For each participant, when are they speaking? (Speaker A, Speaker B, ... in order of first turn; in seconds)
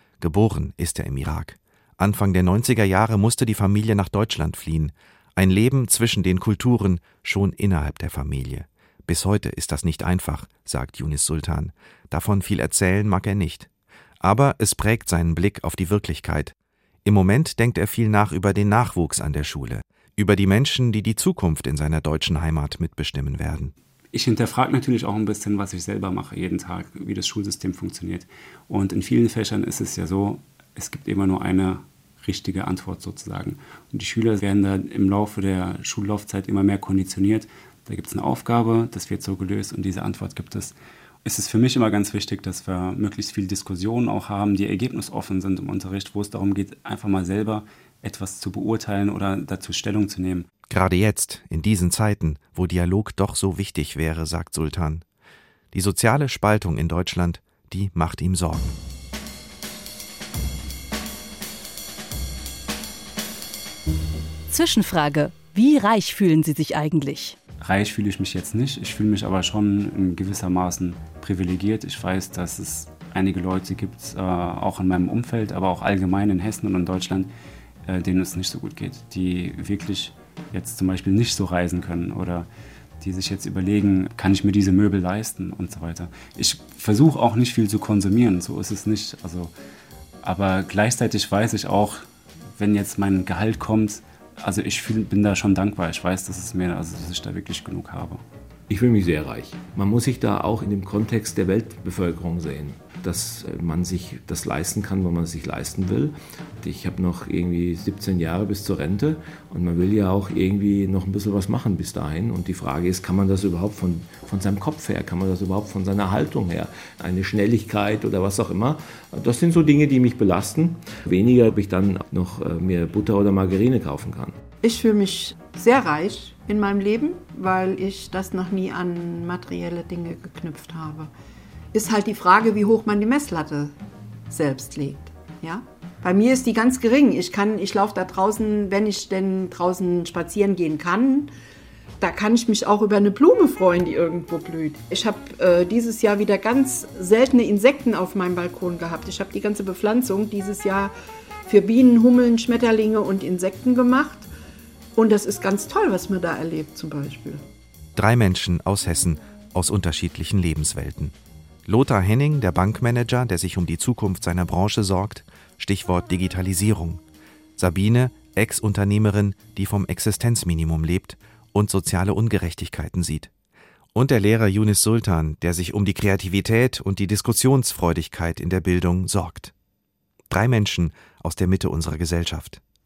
Speaker A: 0.2-13.7, 14.2-23.7, 50.7-55.0, 55.7-58.8, 157.9-167.0, 167.6-173.3, 173.9-179.5, 180.3-182.6
Speaker B: 24.1-50.5, 67.6-77.3, 77.9-82.5, 83.0-89.5, 90.2-92.1, 92.6-98.2
Speaker C: 64.5-67.4
Speaker D: 98.7-124.4
Speaker E: 124.6-131.1, 131.7-133.8, 134.3-141.3, 142.0-150.9, 151.5-154.3, 155.0-157.4